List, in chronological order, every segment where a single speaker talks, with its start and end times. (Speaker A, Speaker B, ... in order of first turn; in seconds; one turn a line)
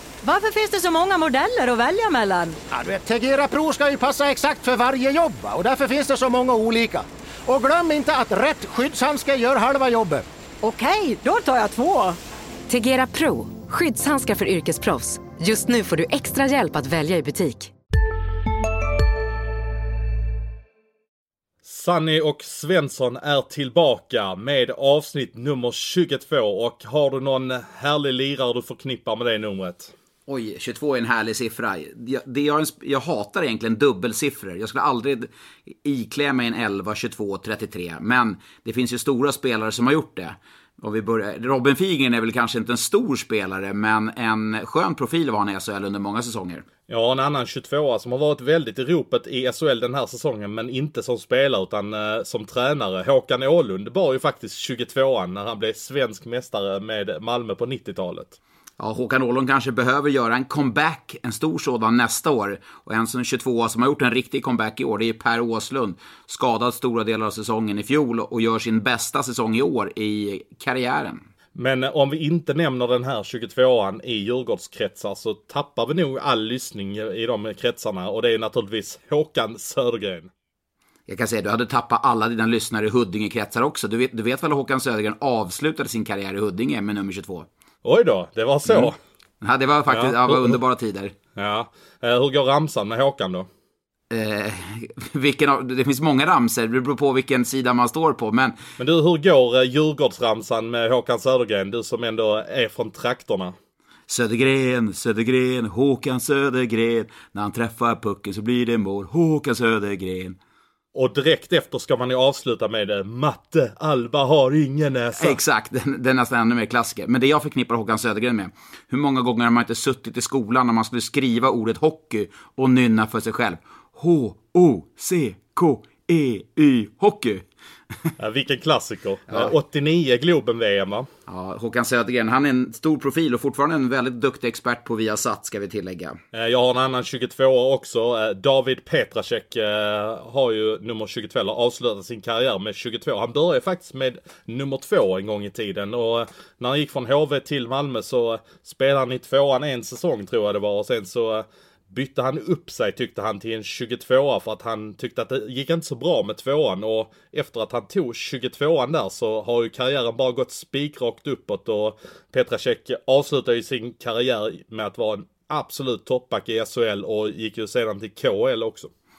Speaker A: 0.2-2.6
Speaker B: 2.7-10.2
Speaker A: 10.6-12.2
Speaker C: 12.7-17.7
Speaker D: 21.6-29.9
Speaker E: 30.3-46.6
Speaker D: 46.9-58.4
Speaker E: 58.8-71.2
Speaker D: 71.6-80.3
Speaker E: 81.1-87.5
Speaker D: 87.8-89.0
Speaker E: 88.7-91.2
Speaker D: 89.9-90.6
Speaker D: 91.4-93.5
Speaker E: 94.1-98.6
Speaker D: 98.8-103.5
Speaker E: 104.1-110.4
Speaker D: 111.0-115.4
Speaker E: 115.2-127.5
Speaker D: 128.2-131.1
Speaker E: 131.3-136.2
Speaker D: 136.3-168.9